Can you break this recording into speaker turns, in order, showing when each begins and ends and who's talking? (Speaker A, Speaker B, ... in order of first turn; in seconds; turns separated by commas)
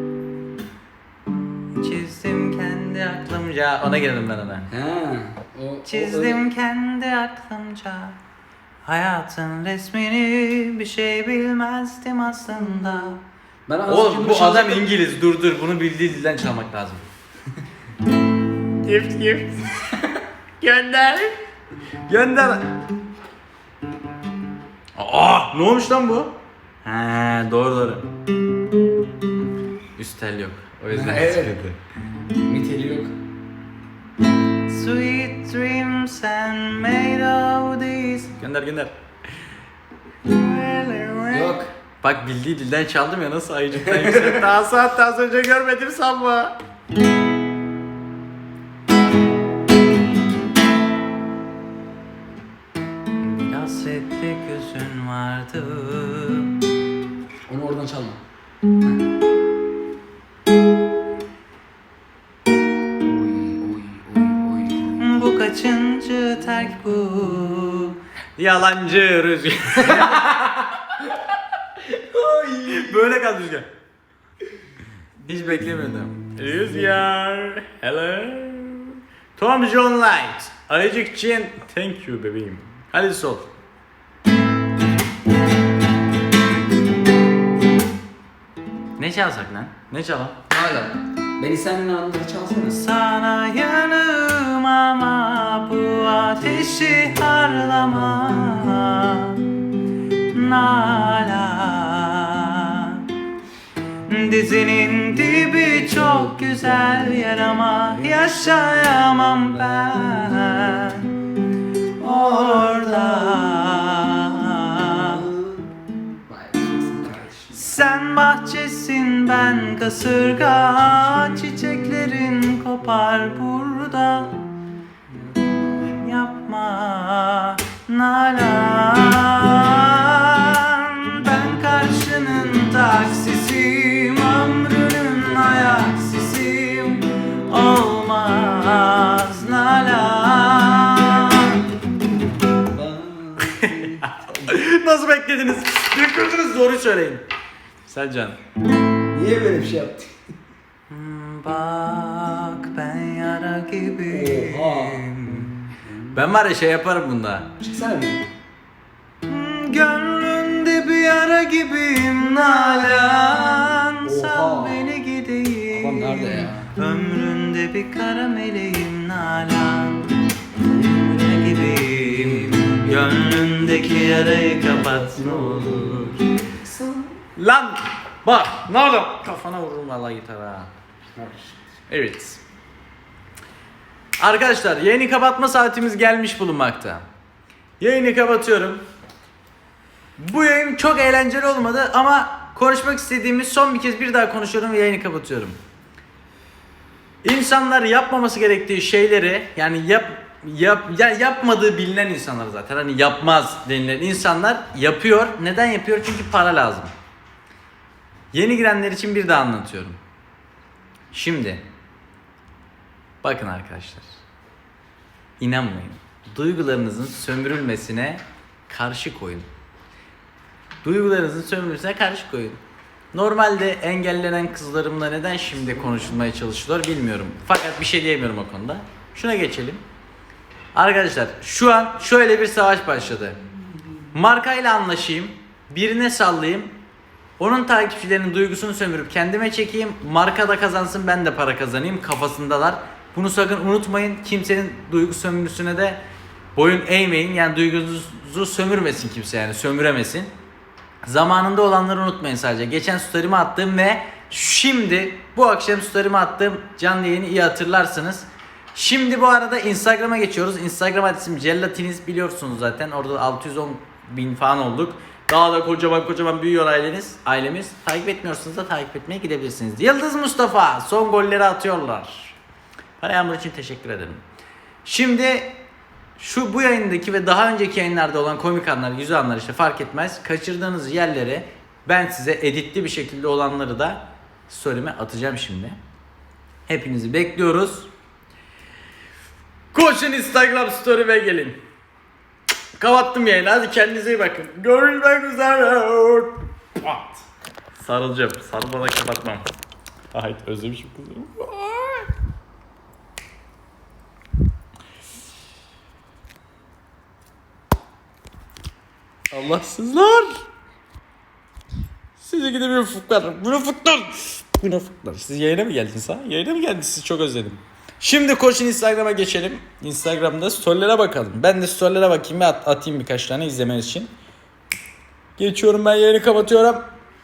Speaker A: 1.7-4.7, Speaker B: 4.7-6.4, Speaker A: 5.8-8.2, Speaker A: 8.8-13.2, Speaker B: 13.7-14.9, Speaker A: 13.9-17.1, Speaker A: 18.8-21.3, Speaker A: 22.1-22.7, Speaker A: 24.9-26.3, Speaker A: 26.8-28.0, Speaker A: 29.9-31.8, Speaker B: 30.9-31.6, Speaker B: 32.4-33.1, Speaker A: 34.7-38.9, Speaker A: 40.2-46.5, Speaker B: 41.3-41.7, Speaker B: 44.0-44.4, Speaker A: 53.2-56.6, Speaker B: 57.5-58.2, Speaker B: 63.0-65.0, Speaker A: 65.0-73.7, Speaker A: 75.2-83.5, Speaker A: 89.0-90.4, Speaker B: 90.5-92.8, Speaker A: 92.7-99.5, Speaker A: 100.3-103.1, Speaker A: 104.1-111.2, Speaker B: 108.0-108.8, Speaker A: 112.0-115.3, Speaker B: 112.0-114.0, Speaker B: 114.7-115.7, Speaker B: 116.3-117.8, Speaker A: 117.5-124.5, Speaker A: 125.8-141.6, Speaker B: 142.5-144.1, Speaker A: 143.5-147.2, Speaker A: 147.8-148.4, Speaker B: 149.1-150.1, Speaker A: 150.9-157.5, Speaker B: 154.1-155.1, Speaker B: 155.8-156.2, Speaker B: 157.6-158.3, Speaker A: 159.2-176.2, Speaker B: 163.0-164.8, Speaker B: 165.7-166.7, Speaker B: 172.2-172.7, Speaker B: 174.2-177.2, Speaker A: 177.3-180.7, Speaker B: 181.2-181.6, Speaker A: 181.9-182.4, Speaker A: 184.2-187.0, Speaker A: 187.8-188.8, Speaker A: 190.2-195.6, Speaker A: 197.2-206.9, Speaker A: 208.3-210.0, Speaker A: 211.1-211.6, Speaker A: 213.2-214.1, Speaker A: 215.4-219.5, Speaker A: 220.8-222.6, Speaker A: 223.1-229.8, Speaker A: 230.7-233.4, Speaker A: 234.1-236.7, Speaker A: 237.4-246.0, Speaker A: 246.5-250.3, Speaker A: 251.0-272.4, Speaker A: 273.0-274.2, Speaker A: 274.8-275.5, Speaker A: 276.2-285.8, Speaker A: 286.7-287.9, Speaker A: 289.7-291.6, Speaker A: 292.8-297.2, Speaker A: 297.8-299.4, Speaker A: 300.1-302.1, Speaker A: 309.3-310.4, Speaker A: 312.2-324.1, Speaker A: 325.4-326.8